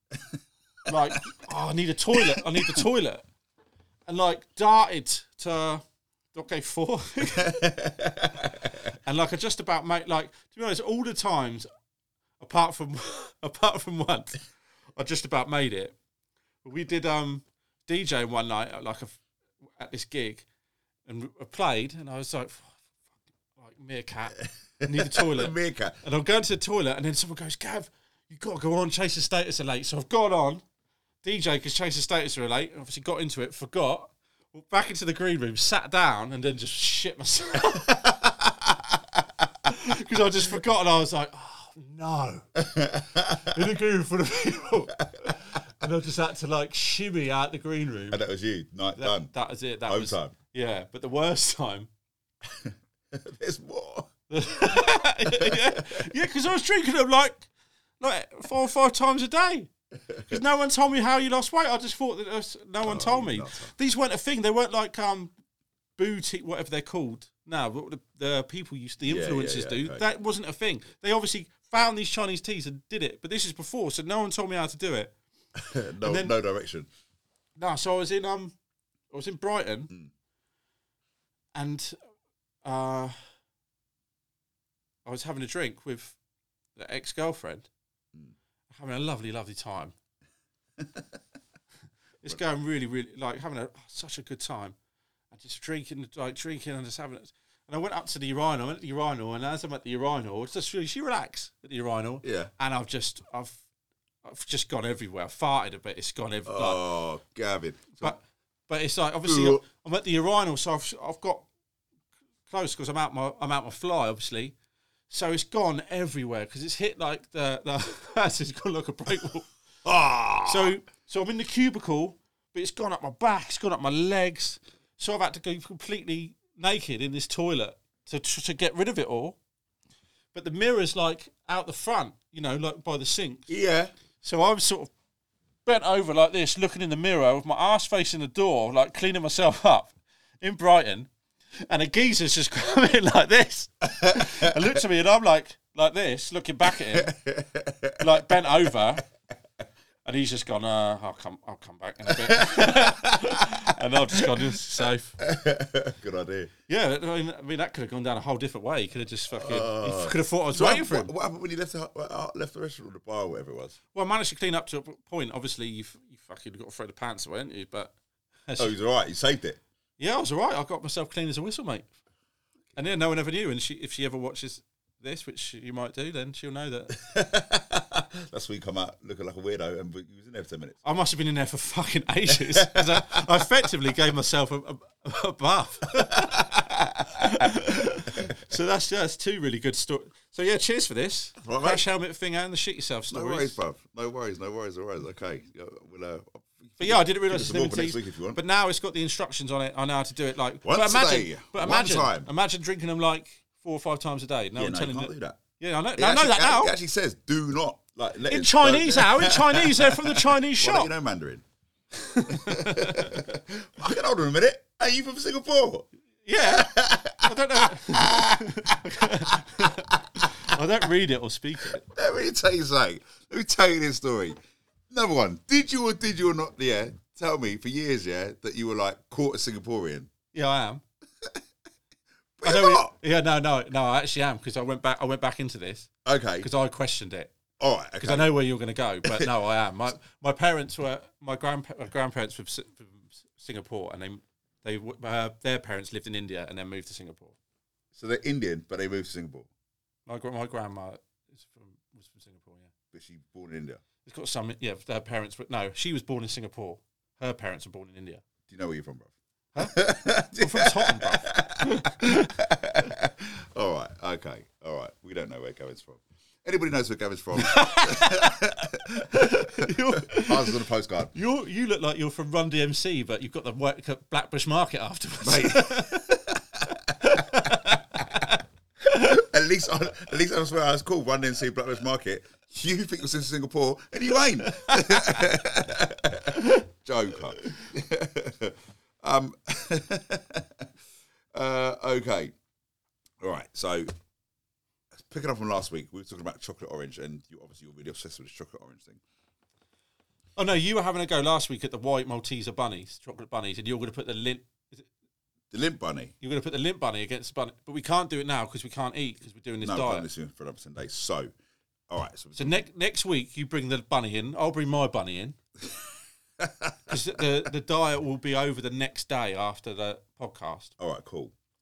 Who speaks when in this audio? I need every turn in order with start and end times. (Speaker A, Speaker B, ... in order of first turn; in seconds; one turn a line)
Speaker A: 0.2-0.9
Speaker B: 0.9-3.2
Speaker A: 2.2-2.8
Speaker B: 4.1-7.6
Speaker A: 7.4-8.9
Speaker B: 9.0-11.7
Speaker B: 12.4-14.4
Speaker B: 15.0-16.0
Speaker B: 16.6-19.2
Speaker B: 19.8-20.5
Speaker B: 21.1-22.9
Speaker B: 23.5-30.6
Speaker A: 24.4-26.0
Speaker B: 31.2-38.0
Speaker A: 37.8-39.2
Speaker B: 39.7-48.2
Speaker A: 42.6-43.6
Speaker A: 45.0-45.6
Speaker A: 48.1-49.3
Speaker B: 49.0-51.9
Speaker A: 49.9-50.3
Speaker A: 52.5-56.1
Speaker B: 54.3-57.5
Speaker B: 58.0-59.7
Speaker A: 60.0-60.4
Speaker B: 60.3-65.3
Speaker A: 62.8-63.8
Speaker B: 66.0-75.1
Speaker A: 69.0-70.0
Speaker A: 75.6-76.9
Speaker B: 76.0-76.3
Speaker B: 77.6-78.5
Speaker B: 79.1-79.9
Speaker B: 81.5-82.0
Speaker B: 82.6-83.2
Speaker B: 85.0-86.2
Speaker B: 86.8-87.7
Speaker B: 88.7-89.9
Speaker A: 90.8-91.1
Speaker B: 92.2-94.8
Speaker B: 95.3-103.6
Speaker A: 102.2-102.5
Speaker B: 104.2-106.9
Speaker A: 106.5-108.2
Speaker B: 108.0-111.5
Speaker A: 109.2-109.6
Speaker B: 112.5-114.5
Speaker B: 115.1-119.5
Speaker A: 119.8-120.7
Speaker B: 120.5-129.4
Speaker B: 130.3-133.5
Speaker A: 133.5-133.9
Speaker B: 134.2-134.9
Speaker B: 135.7-141.1
Speaker B: 141.6-147.2
Speaker A: 144.2-144.5
Speaker A: 146.9-148.7
Speaker B: 148.0-149.0
Speaker B: 150.1-155.2
Speaker A: 152.2-153.1
Speaker A: 154.2-154.6
Speaker A: 155.2-156.5
Speaker B: 156.7-161.1
Speaker A: 159.3-163.8
Speaker B: 163.9-167.9
Speaker B: 168.5-168.8
Speaker A: 168.6-169.6
Speaker B: 170.0-171.9
Speaker B: 172.8-177.0
Speaker A: 177.0-180.8
Speaker B: 180.8-186.5
Speaker A: 182.5-183.5
Speaker A: 186.1-187.0
Speaker B: 187.2-193.6
Speaker A: 191.4-191.8
Speaker A: 193.1-198.4
Speaker B: 196.8-206.7
Speaker A: 200.6-202.3
Speaker A: 204.6-205.4
Speaker A: 206.0-211.4
Speaker B: 208.3-210.9
Speaker B: 211.9-213.2
Speaker A: 212.3-220.5
Speaker B: 216.2-221.8
Speaker A: 221.6-224.4
Speaker A: 224.9-230.1
Speaker B: 230.3-230.8
Speaker A: 232.4-232.9
Speaker B: 232.4-235.9
Speaker A: 236.1-236.5
Speaker B: 236.4-237.3
Speaker A: 237.6-238.4
Speaker B: 238.0-247.4
Speaker A: 239.1-239.3
Speaker A: 247.9-249.5
Speaker B: 250.1-252.7
Speaker A: 252.9-253.8
Speaker B: 254.0-258.2
Speaker A: 258.5-271.1
Speaker B: 259.6-262.3
Speaker B: 267.4-268.3
Speaker B: 269.1-276.2
Speaker A: 275.2-277.1
Speaker B: 277.0-278.4
Speaker A: 278.9-290.7
Speaker B: 284.5-285.0
Speaker A: 291.3-292.3
Speaker A: 293.2-293.9
Speaker A: 294.9-299.0
Speaker B: 300.4-304.9
Speaker A: 305.5-306.1
Speaker B: 306.2-310.1
Speaker A: 309.6-311.3
Speaker A: 311.9-312.7
Speaker B: 312.4-315.4
Speaker A: 316.4-317.0
Speaker B: 316.9-320.7
Speaker A: 320.8-321.3